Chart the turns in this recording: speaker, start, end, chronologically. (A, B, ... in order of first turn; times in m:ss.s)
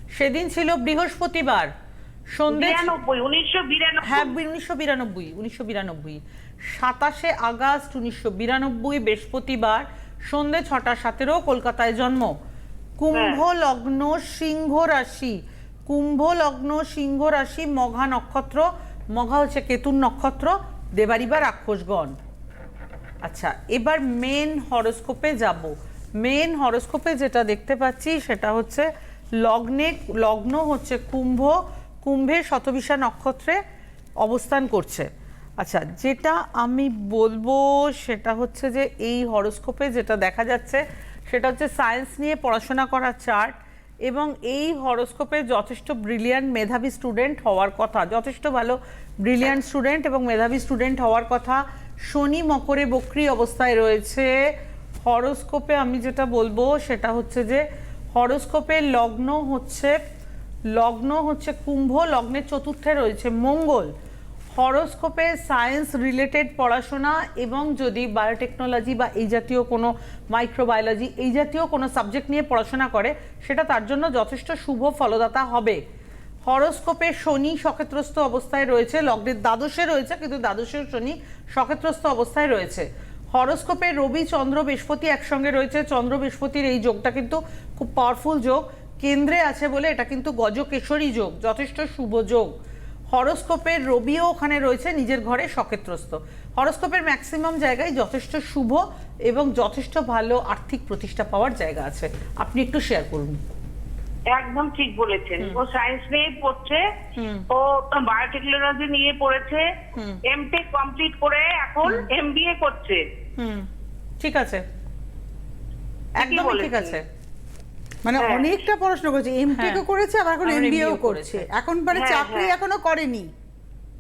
0:00.1-0:01.7 A
0:02.3-0:02.9 A
0:02.5-0:04.3 B
0:04.0-0:12.3 A
0:13.0-0:22.2 A
0:13.1-0:13.4 B
0:23.2-0:33.6 A
0:34.2-0:35.1 A
0:35.6-0:43.5 A
0:44.0-0:54.3 A
0:55.0-0:57.6 A
0:58.1-1:00.0 A
1:00.7-1:03.9 A
1:04.5-1:15.8 A
1:16.4-1:32.5 A
1:33.1-1:43.4 A
1:44.3-1:46.8 B
1:47.2-1:47.4 A
1:47.5-1:49.7 B
1:49.9-1:50.2 A
1:50.3-1:53.0 B
1:53.4-1:53.7 A
1:54.2-1:54.6 A
1:56.2-1:57.0 A
1:56.2-1:57.0 B
1:58.0-2:03.3 C
1:58.2-1:58.5 B
1:59.5-1:59.8 A
2:00.4-2:01.4 A
2:01.9-2:02.5 B